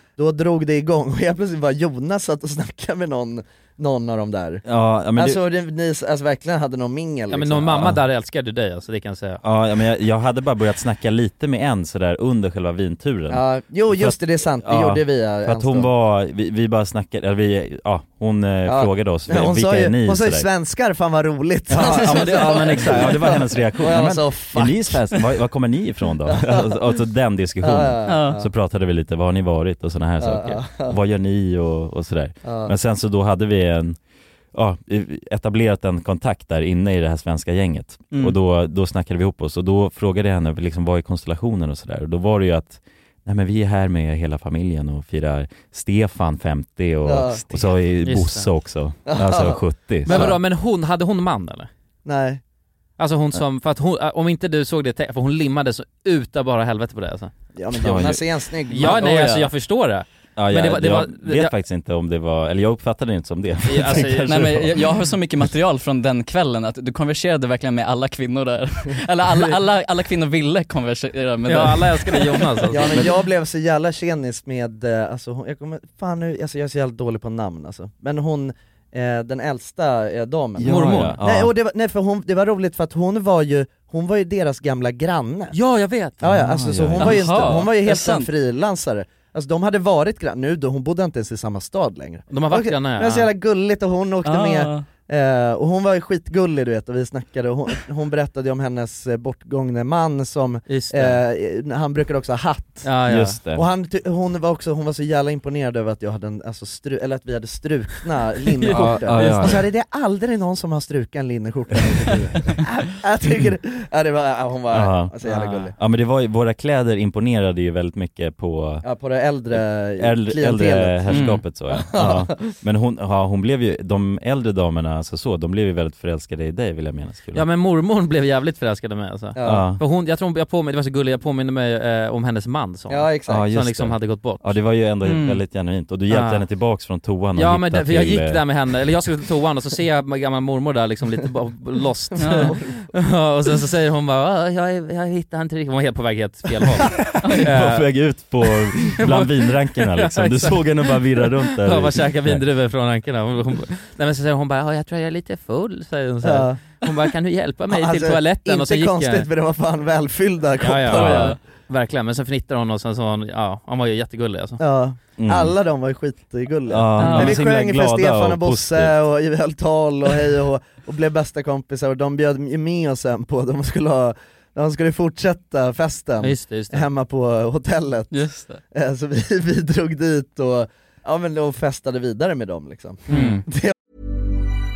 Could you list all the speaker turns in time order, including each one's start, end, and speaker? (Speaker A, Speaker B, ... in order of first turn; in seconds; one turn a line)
Speaker A: 0.2-7.8
Speaker B: 4.7-5.4
Speaker C: 7.3-9.4
Speaker B: 9.4-20.5
Speaker A: 13.3-15.9
Speaker A: 18.6-25.1
Speaker B: 21.7-34.0
Speaker A: 26.2-26.8
Speaker A: 27.6-28.5
Speaker D: 28.1-28.4
Speaker A: 30.2-31.0
Speaker A: 32.4-32.7
Speaker B: 34.5-50.4
Speaker A: 47.0-47.5
Speaker C: 48.0-48.5
Speaker A: 49.0-50.3
Speaker C: 50.0-51.7
Speaker A: 52.0-52.4
Speaker C: 53.0-57.3
Speaker A: 57.5-59.0
Speaker B: 57.7-58.2
Speaker C: 58.7-61.5
Speaker D: 58.8-59.5
Speaker B: 60.4-64.8
Speaker C: 63.6-64.4
Speaker D: 64.2-73.1
Speaker C: 71.5-73.1
Speaker A: 72.7-85.6
Speaker B: 80.6-81.5
Speaker C: 80.7-81.2
Speaker C: 85.5-86.2
Speaker A: 86.2-102.9
Speaker B: 86.2-87.6
Speaker D: 87.0-88.3
Speaker C: 92.3-93.3
Speaker D: 94.2-94.8
Speaker C: 100.7-101.2
Speaker C: 102.8-103.4
Speaker B: 103.1-103.6
Speaker A: 103.5-115.7
Speaker B: 108.7-109.6
Speaker C: 108.8-109.5
Speaker B: 114.7-118.8
Speaker A: 118.8-122.5
Speaker B: 119.5-127.5
Speaker D: 121.1-121.4
Speaker C: 127.3-134.4
Speaker A: 129.3-129.7
Speaker B: 129.4-129.8
Speaker A: 132.9-133.4
Speaker B: 133.3-138.4
Speaker D: 135.0-135.4
Speaker C: 136.1-136.4
Speaker C: 137.3-147.8
Speaker A: 142.2-142.9
Speaker D: 142.2-142.5
Speaker D: 147.2-147.5
Speaker B: 147.4-152.4
Speaker C: 148.8-159.3
Speaker A: 156.2-156.6
Speaker A: 157.7-161.3
Speaker C: 160.6-164.6
Speaker D: 160.9-161.4
Speaker A: 164.6-183.7
Speaker B: 165.2-165.5
Speaker B: 166.7-169.0
Speaker D: 167.0-167.4
Speaker C: 176.2-176.9
Speaker D: 178.1-178.6
Speaker C: 183.1-183.4
Speaker D: 183.1-183.4